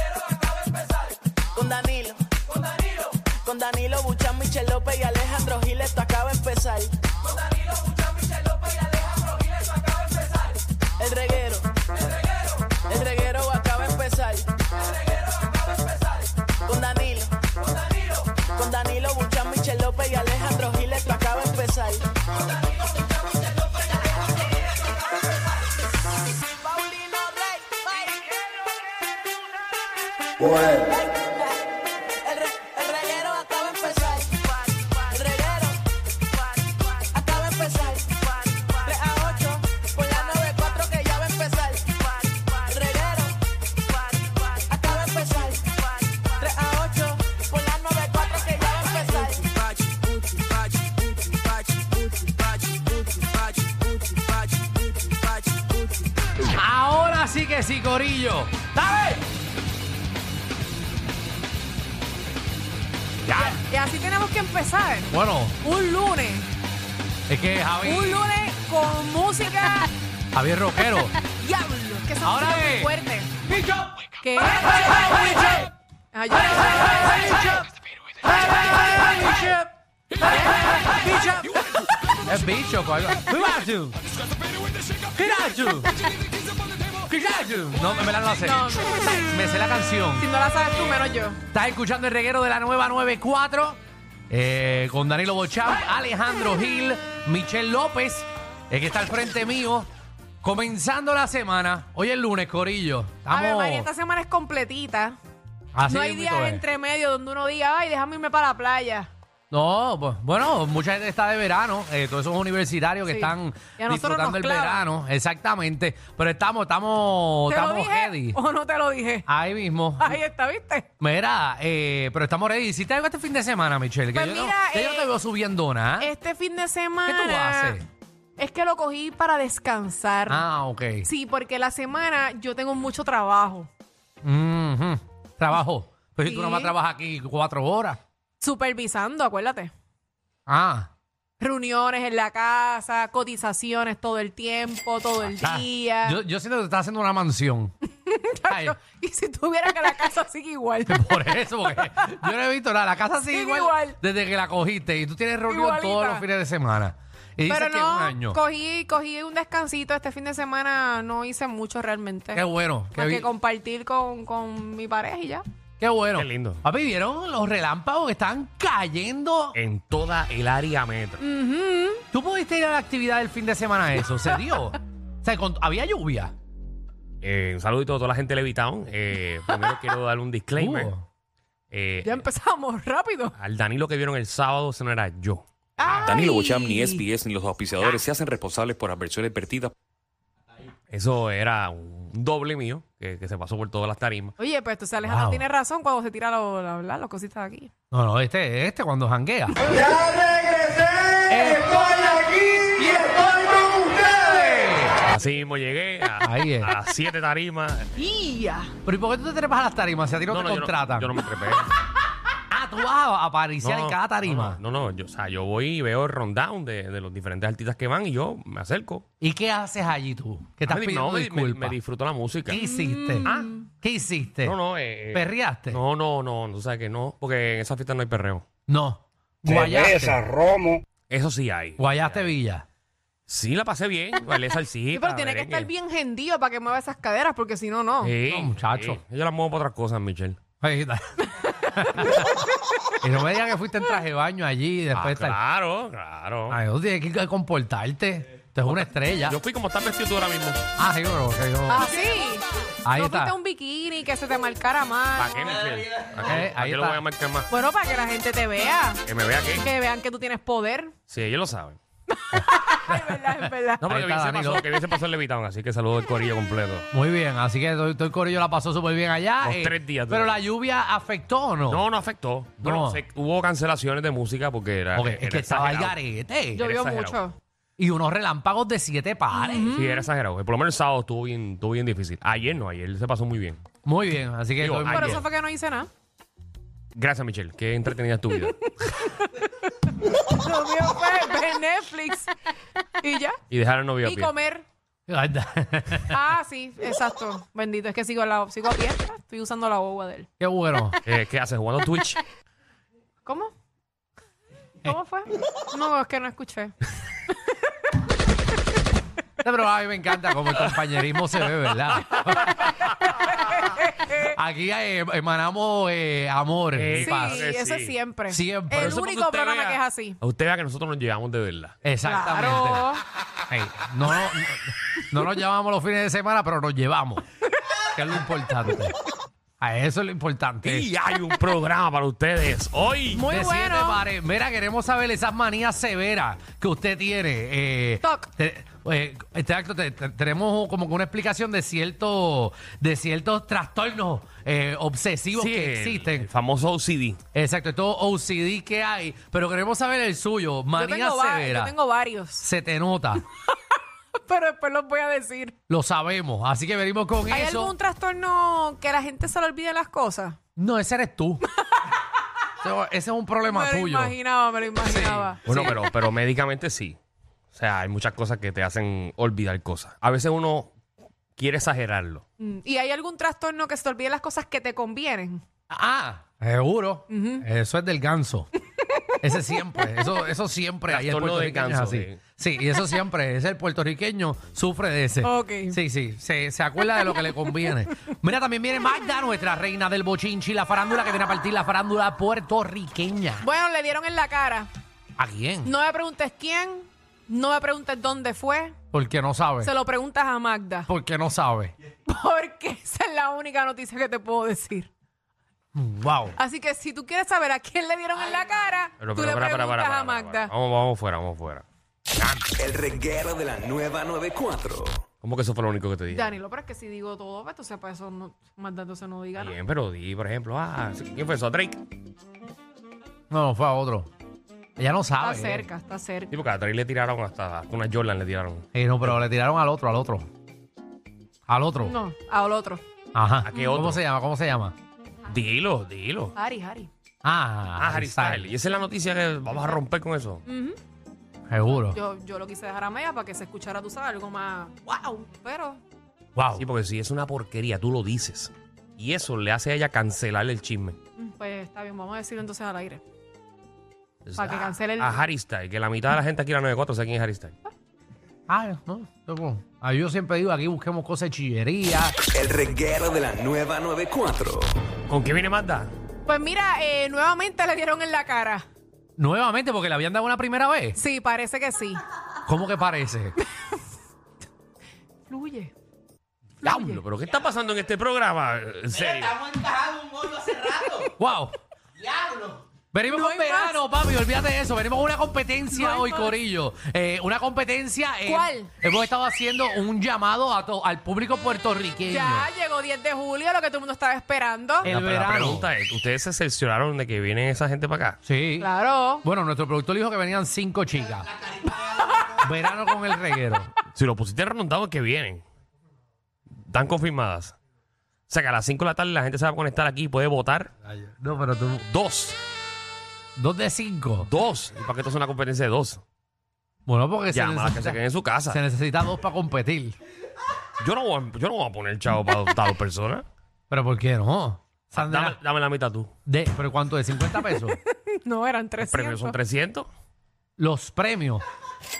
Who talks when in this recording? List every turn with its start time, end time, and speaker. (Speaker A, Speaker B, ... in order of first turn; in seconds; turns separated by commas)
Speaker A: 1.5-2.4, Speaker A: 3.4-6.9, Speaker A: 11.0-11.7, Speaker A: 12.9-14.5, Speaker A: 16.6-22.1, Speaker A: 26.6-28.4, Speaker A: 30.4-31.6, Speaker A: 32.2-35.8, Speaker A: 36.7-43.4, Speaker A: 43.9-56.0, Speaker B: 56.4-59.2, Speaker B: 63.2-63.6, Speaker C: 63.3-66.5, Speaker B: 65.1-65.6, Speaker B: 67.3-68.3, Speaker C: 67.8-69.9, Speaker B: 70.3-71.2, Speaker C: 71.3-73.3, Speaker B: 72.2-72.9, Speaker B: 73.5-74.0, Speaker C: 74.2-75.4, Speaker B: 74.9-75.6, Speaker C: 76.1-77.6, Speaker B: 77.0-77.7, Speaker B: 78.2-79.7, Speaker C: 80.2-80.8, Speaker B: 80.2-84.0, Speaker B: 85.0-86.1, Speaker B: 86.8-90.3, Speaker C: 88.4-89.3, Speaker C: 90.2-91.4, Speaker B: 91.5-99.9, Speaker B: 100.4-103.9, Speaker C: 103.3-105.2, Speaker B: 105.7-106.6, Speaker C: 105.9-109.1, Speaker B: 109.5-118.4, Speaker C: 113.1-114.9, Speaker C: 117.5-119.3, Speaker B: 119.3-120.2, Speaker C: 120.0-120.9, Speaker B: 121.0-126.1, Speaker C: 124.1-125.1, Speaker C: 126.0-127.8, Speaker B: 127.0-127.8, Speaker C: 128.4-130.4, Speaker B: 130.3-131.1, Speaker C: 131.0-133.7, Speaker B: 134.2-138.0, Speaker C: 136.2-136.7, Speaker C: 138.4-139.7, Speaker B: 140.5-140.9, Speaker C: 141.4-146.2, Speaker B: 145.3-147.7, Speaker C: 148.0-151.2, Speaker B: 148.5-148.8, Speaker B: 150.9-158.4, Speaker C: 153.3-154.0, Speaker C: 155.5-156.2, Speaker C: 157.5-165.4, Speaker B: 162.3-163.3, Speaker B: 165.8-169.6, Speaker D: 166.1-166.6, Speaker D: 169.5-171.2, Speaker C: 171.2-172.0, Speaker B: 172.1-176.3, Speaker D: 177.2-180.9, Speaker B: 180.6-181.1, Speaker D: 181.7-182.2, Speaker C: 182.0-183.3, Speaker D: 183.4-185.4, Speaker C: 185.8-187.0, Speaker E: 186.0-189.7, Speaker D: 190.9-194.3, Speaker C: 194.4-197.7, Speaker B: 195.0-195.4, Speaker B: 197.9-200.1, Speaker B: 201.1-204.9, Speaker D: 204.9-207.9, Speaker B: 206.2-206.7, Speaker C: 208.0-208.7, Speaker B: 208.8-211.1, Speaker D: 210.3-211.7, Speaker B: 212.5-214.6, Speaker D: 213.6-219.0, Speaker B: 219.2-221.8, Speaker D: 220.7-222.6, Speaker B: 222.5-224.6, Speaker C: 222.6-223.6, Speaker D: 223.2-223.5, Speaker D: 224.4-228.4, Speaker B: 225.1-225.8, Speaker B: 228.7-230.3, Speaker D: 231.1-232.3, Speaker B: 231.8-232.6, Speaker D: 233.3-235.7, Speaker C: 234.9-238.2, Speaker D: 238.0-240.4, Speaker B: 238.3-239.0, Speaker B: 240.6-242.3, Speaker C: 241.4-242.4, Speaker B: 243.0-245.4, Speaker D: 244.9-246.6, Speaker B: 246.5-249.4, Speaker D: 248.6-250.6, Speaker B: 250.8-251.9, Speaker C: 251.7-255.5, Speaker B: 252.8-253.3, Speaker D: 255.2-257.5, Speaker B: 256.2-257.0, Speaker C: 257.5-259.0, Speaker D: 259.1-259.6, Speaker C: 259.6-260.9, Speaker D: 261.1-261.8, Speaker C: 262.1-263.8, Speaker B: 262.9-264.6, Speaker D: 263.8-266.9, Speaker B: 266.9-271.8, Speaker D: 269.4-270.4, Speaker D: 271.7-276.0, Speaker B: 272.6-273.0, Speaker B: 274.9-276.7, Speaker C: 276.5-277.4, Speaker D: 276.6-277.2, Speaker B: 277.8-279.8, Speaker C: 279.3-280.1, Speaker D: 279.7-283.6, Speaker B: 283.8-285.2, Speaker D: 284.6-285.2, Speaker C: 284.9-285.9, Speaker D: 286.9-288.6, Speaker C: 288.8-292.3, Speaker C: 293.0-293.4, Speaker D: 293.5-294.3, Speaker C: 294.0-294.6, Speaker B: 295.1-296.2, Speaker C: 296.1-300.3, Speaker B: 300.4-301.0, Speaker D: 301.0-302.2, Speaker C: 303.2-303.5, Speaker C: 304.8-306.7, Speaker B: 309.4-312.7, Speaker C: 313.4-314.1, Speaker B: 314.1-317.5, Speaker D: 316.7-317.9, Speaker C: 316.9-320.2, Speaker B: 318.3-319.0, Speaker D: 318.7-321.8, Speaker B: 321.8-323.0, Speaker C: 322.0-323.0, Speaker B: 323.5-327.2, Speaker B: 327.9-328.9, Speaker B: 329.6-330.9, Speaker D: 330.6-333.3, Speaker C: 333.1-334.0, Speaker B: 333.3-346.3, Speaker C: 338.0-338.3, Speaker D: 345.3-347.2, Speaker B: 347.3-351.7, Speaker C: 350.8-352.4, Speaker B: 352.4-353.2, Speaker C: 354.2-355.5, Speaker B: 355.7-357.7, Speaker C: 357.3-360.4, Speaker B: 360.6-361.4, Speaker B: 362.6-364.1, Speaker C: 363.4-365.8, Speaker D: 364.9-367.0, Speaker D: 367.5-370.7, Speaker D: 371.4-372.2, Speaker C: 372.4-375.4, Speaker B: 375.7-378.5, Speaker C: 377.1-377.4, Speaker B: 379.2-393.4, Speaker D: 380.9-382.2, Speaker C: 385.2-385.8, Speaker C: 387.1-387.7, Speaker C: 393.4-394.7, Speaker B: 395.2-395.7, Speaker C: 395.6-398.8, Speaker B: 398.9-399.7, Speaker C: 399.6-400.9, Speaker B: 400.9-401.7, Speaker C: 402.1-404.9, Speaker B: 405.7-406.4, Speaker C: 406.4-410.5, Speaker D: 409.0-411.6, Speaker B: 412.2-412.6, Speaker F: 412.6-415.0, Speaker D: 415.2-416.4, Speaker C: 416.1-419.5, Speaker D: 419.4-421.8, Speaker B: 423.3-424.1, Speaker B: 424.8-425.7, Speaker C: 425.2-426.3, Speaker D: 426.3-429.2, Speaker B: 428.7-430.3, Speaker B: 431.5-432.0, Speaker C: 431.8-432.8, Speaker B: 433.1-434.7, Speaker D: 433.4-434.0, Speaker D: 435.3-436.3, Speaker C: 436.3-436.9, Speaker B: 437.2-438.5, Speaker D: 437.8-440.4, Speaker C: 440.4-440.8, Speaker B: 441.5-442.0, Speaker C: 441.7-445.8, Speaker B: 446.4-446.6, Speaker D: 446.6-451.0, Speaker C: 451.2-453.0, Speaker D: 454.2-457.6, Speaker C: 454.4-455.2, Speaker B: 458.5-462.1, Speaker F: 462.3-464.7, Speaker D: 465.1-465.9, Speaker C: 466.2-468.6, Speaker B: 469.2-471.0, Speaker C: 470.9-472.0, Speaker B: 472.5-473.4, Speaker C: 475.3-475.7, Speaker C: 476.6-477.0, Speaker D: 476.6-479.7, Speaker C: 480.4-481.0, Speaker B: 481.2-481.6, Speaker B: 482.9-492.5, Speaker C: 483.1-483.8, Speaker C: 485.7-486.3, Speaker C: 488.2-488.7, Speaker C: 492.1-494.9, Speaker B: 494.8-495.7, Speaker D: 494.8-498.2, Speaker B: 498.2-498.7, Speaker C: 498.6-499.2, Speaker B: 499.2-501.3, Speaker B: 502.3-503.7, Speaker D: 503.9-505.4, Speaker D: 506.5-507.5, Speaker D: 508.3-510.7, Speaker B: 510.9-511.8, Speaker D: 511.8-512.4, Speaker B: 513.4-514.3, Speaker D: 514.2-516.0, Speaker B: 516.9-520.0, Speaker D: 517.3-518.6, Speaker D: 520.8-523.2, Speaker B: 523.7-525.4, Speaker D: 525.0-526.1, Speaker B: 526.2-527.8, Speaker C: 527.4-529.4, Speaker D: 528.8-529.9, Speaker B: 530.6-531.4